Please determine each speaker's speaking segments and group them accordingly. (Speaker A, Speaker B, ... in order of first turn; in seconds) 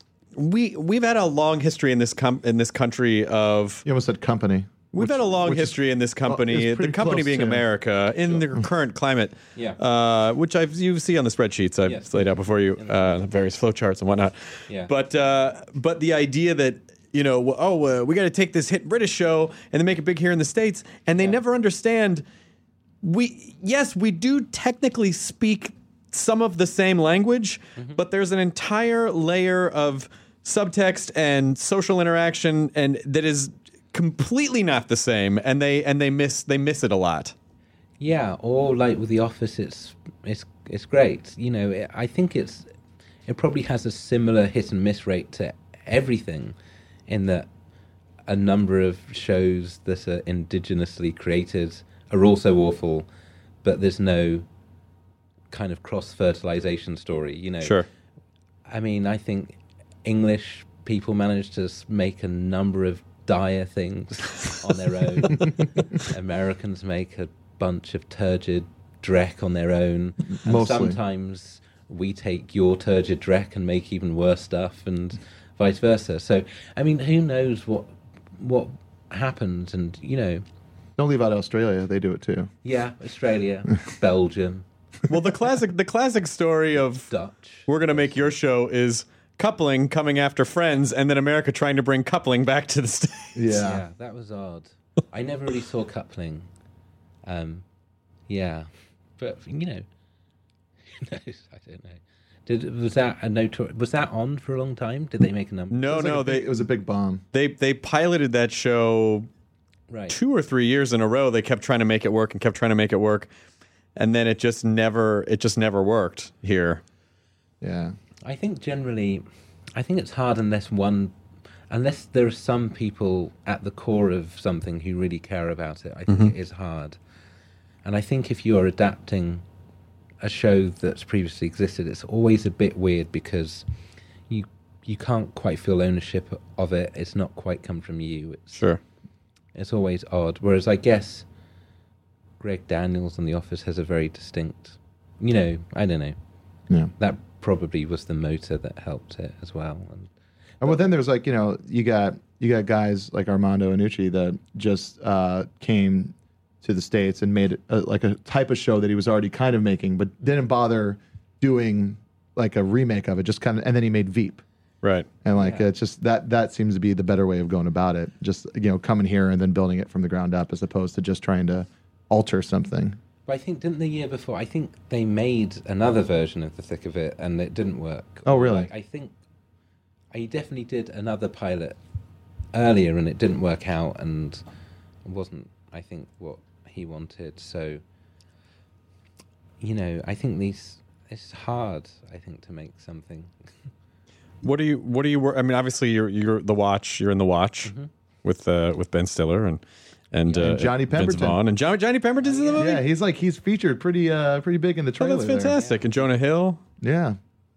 Speaker A: 0.3-3.8, 4.9-14.3, 14.9-22.2, 23.0-37.3, 85.1-87.1, 87.7-93.4, 105.7-106.5, 107.3-109.3, 110.1-113.3, 114.0-116.8, 138.6-138.8, 164.8-165.1, 194.4-197.7, 198.2-199.6, 200.1-202.8, 205.0-206.6
Speaker B: 3.9-7.6, 70.3-71.0, 81.0-82.5, 93.3-93.8, 105.9-107.2, 117.6-118.0, 150.6-164.4, 165.2-173.0, 178.3-178.7, 200.3-201.4, 202.6-205.5, 206.8-207.2
Speaker C: 11.8-12.1, 12.8-13.2, 38.0-42.7, 43.3-46.5, 47.1-47.5, 48.3-53.1, 53.6-54.5, 55.5-57.8, 58.7-80.5, 82.6-84.7, 87.1-88.3, 93.5-96.5, 97.2-97.7, 98.3-99.8, 100.9-105.8, 109.9-110.2, 118.2-119.2, 119.8-121.1, 121.7-127.0, 127.8-129.4, 130.2-133.7, 134.3-138.7, 139.6-141.3, 142.4-146.2, 147.0-150.1, 165.4-165.7, 173.3-179.1, 180.1-181.8, 182.5-184.4, 185.1-187.8, 189.6-193.3, 197.7-197.9, 202.2-202.7, 205.5-206.1